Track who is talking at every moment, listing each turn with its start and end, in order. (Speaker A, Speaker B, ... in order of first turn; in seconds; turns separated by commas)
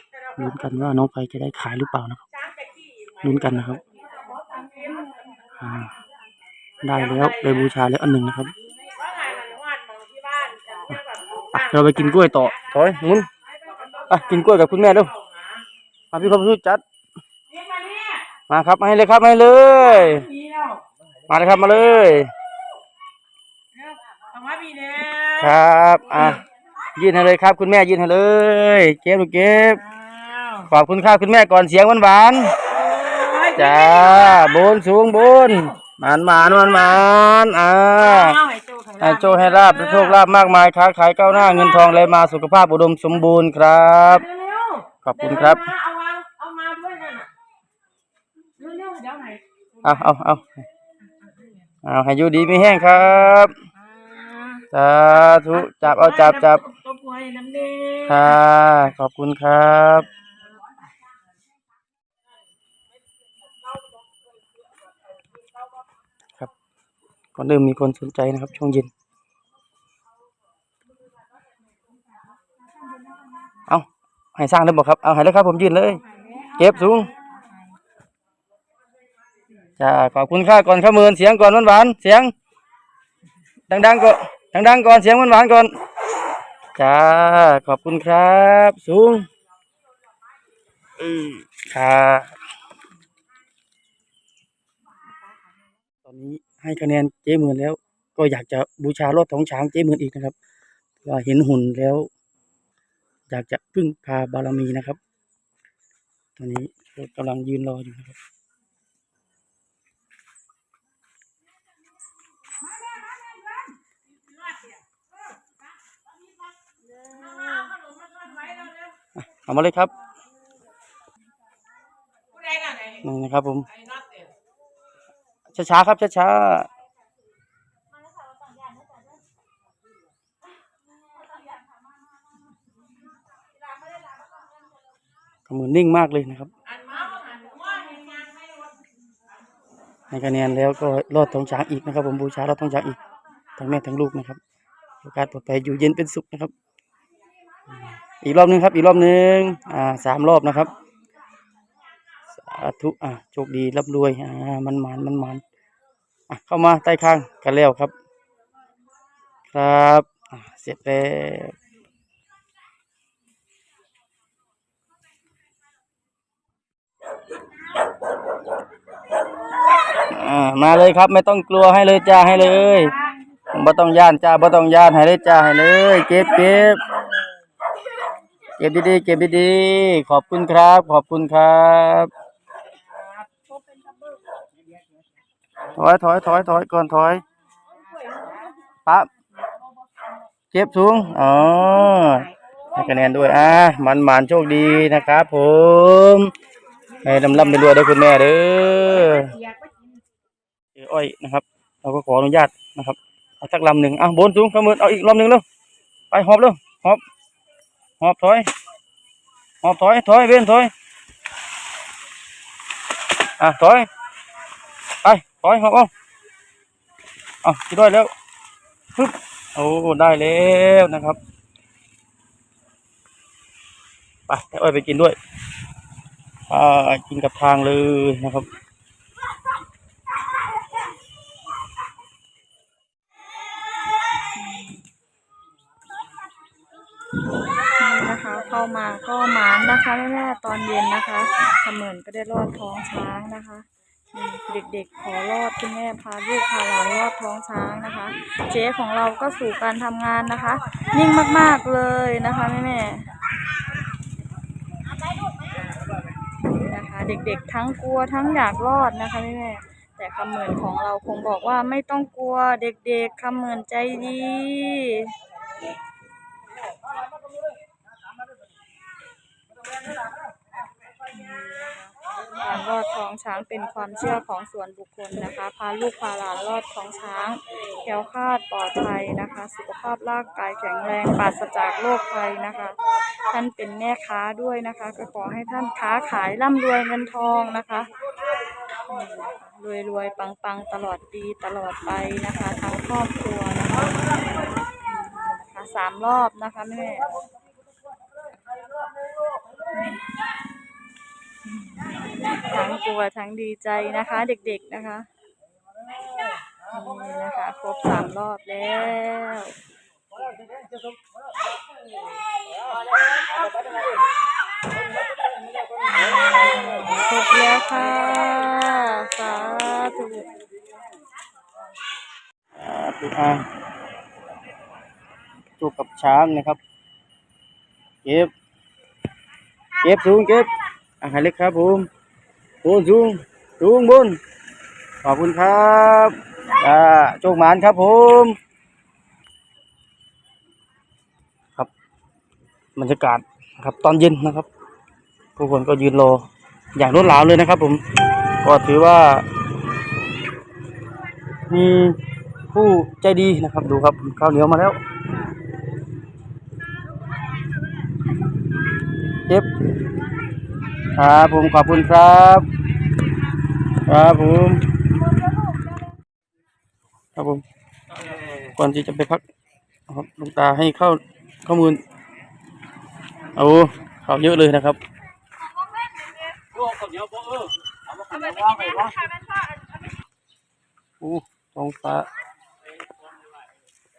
Speaker A: 0.3-2.2, Speaker A: 3.2-3.8, Speaker A: 5.6-5.9, Speaker A: 6.8-8.5, Speaker A: 11.5-13.3, Speaker A: 14.1-15.1, Speaker A: 16.1-16.8, Speaker B: 17.8-18.1, Speaker A: 18.5-20.3, Speaker A: 21.3-22.3, Speaker B: 24.3-25.2, Speaker A: 25.3-26.4, Speaker A: 26.9-29.8, Speaker B: 30.1-30.5, Speaker A: 30.6-32.6, Speaker B: 32.8-33.5, Speaker A: 33.5-38.4, Speaker B: 38.5-39.0, Speaker A: 39.0-44.3, Speaker B: 44.4-44.8, Speaker A: 45.0-45.7, Speaker B: 45.7-47.3, Speaker B: 48.6-49.4, Speaker A: 49.8-50.6, Speaker A: 51.8-53.5, Speaker B: 54.0-54.6, Speaker A: 54.7-56.7, Speaker B: 56.9-58.0, Speaker A: 58.0-60.1, Speaker A: 67.3-68.9, Speaker A: 73.7-77.1, Speaker A: 79.8-82.3, Speaker A: 83.7-85.7, Speaker A: 86.8-89.3, Speaker A: 91.0-92.3, Speaker A: 96.0-100.3, Speaker A: 101.0-102.1, Speaker A: 103.3-105.0, Speaker A: 106.4-108.2, Speaker C: 117.2-117.7, Speaker A: 119.2-119.9, Speaker A: 123.0-123.7, Speaker A: 125.5-126.7, Speaker A: 135.5-136.5, Speaker A: 140.1-143.0, Speaker A: 143.6-144.4, Speaker A: 145.0-146.5, Speaker A: 148.2-150.7, Speaker A: 152.3-155.4, Speaker A: 156.3-157.9, Speaker A: 159.5-161.6, Speaker A: 170.0-172.9, Speaker A: 173.5-176.8, Speaker A: 178.6-182.1, Speaker A: 185.7-187.2, Speaker A: 190.5-196.3, Speaker A: 197.0-199.4, Speaker A: 200.8-205.4, Speaker A: 206.1-207.0, Speaker A: 208.0-208.5, Speaker A: 209.6-210.7, Speaker A: 213.4-213.9, Speaker A: 215.0-215.9, Speaker A: 217.4-218.1, Speaker A: 218.9-221.2, Speaker A: 224.3-225.2, Speaker A: 226.5-228.5, Speaker C: 234.3-234.8, Speaker C: 237.8-253.1, Speaker C: 256.5-265.1, Speaker C: 271.1-287.9, Speaker C: 288.8-294.0, Speaker C: 294.9-297.1, Speaker C: 301.6-305.1, Speaker C: 306.7-309.6, Speaker C: 316.1-320.3, Speaker A: 322.6-323.4, Speaker A: 325.6-326.6, Speaker A: 328.0-328.3, Speaker A: 329.8-331.9, Speaker A: 332.6-334.2, Speaker A: 335.0-338.4, Speaker A: 342.8-344.5, Speaker A: 345.4-346.2, Speaker A: 346.8-347.8, Speaker A: 348.4-349.2, Speaker A: 351.5-352.0, Speaker A: 352.5-354.8, Speaker A: 360.9-362.5, Speaker A: 363.9-364.6, Speaker A: 367.1-367.4, Speaker A: 368.4-369.2, Speaker A: 369.9-371.8, Speaker A: 373.4-374.8, Speaker A: 378.1-378.9, Speaker A: 381.0-382.1